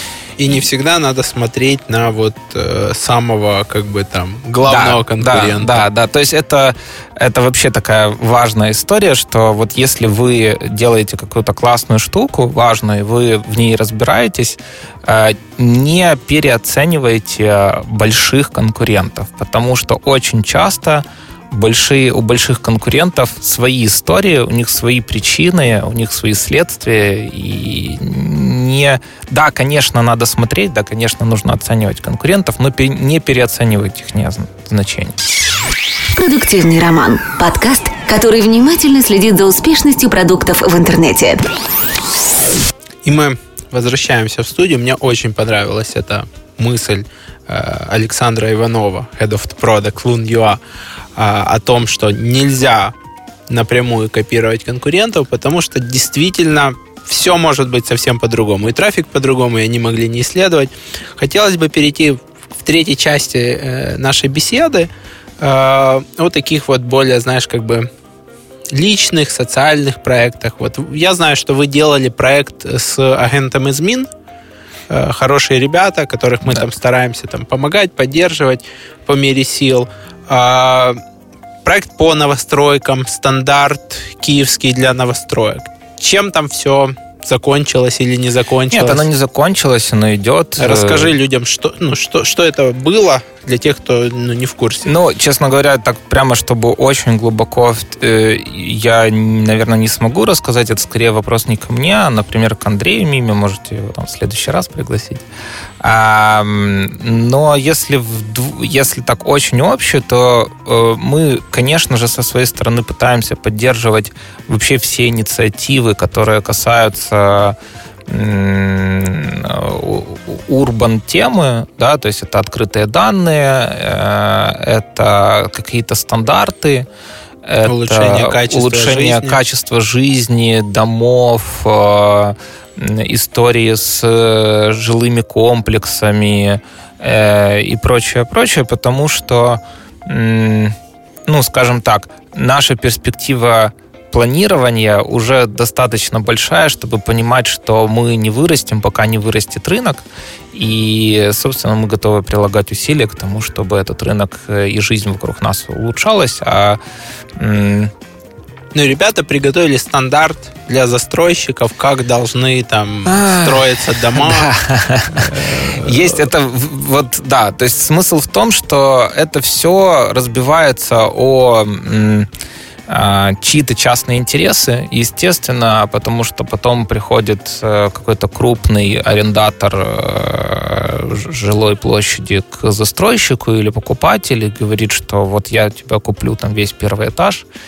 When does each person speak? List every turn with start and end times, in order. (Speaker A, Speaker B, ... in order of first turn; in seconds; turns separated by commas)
Speaker A: 0.4-5.9, Speaker B: 4.7-35.1, Speaker C: 36.1-41.5, Speaker A: 43.0-50.6, Speaker A: 51.2-53.0, Speaker A: 53.5-67.9, Speaker A: 68.7-74.1, Speaker A: 74.9-81.0, Speaker A: 81.6-89.1, Speaker B: 88.7-91.2, Speaker A: 90.6-94.9, Speaker B: 94.8-105.2, Speaker B: 105.8-117.6, Speaker B: 118.1-126.9, Speaker B: 127.5-140.8, Speaker A: 127.7-129.4, Speaker B: 141.3-156.8, Speaker B: 157.4-157.9, Speaker A: 158.7-164.5, Speaker B: 163.1-172.3, Speaker A: 165.1-166.2, Speaker B: 172.9-187.4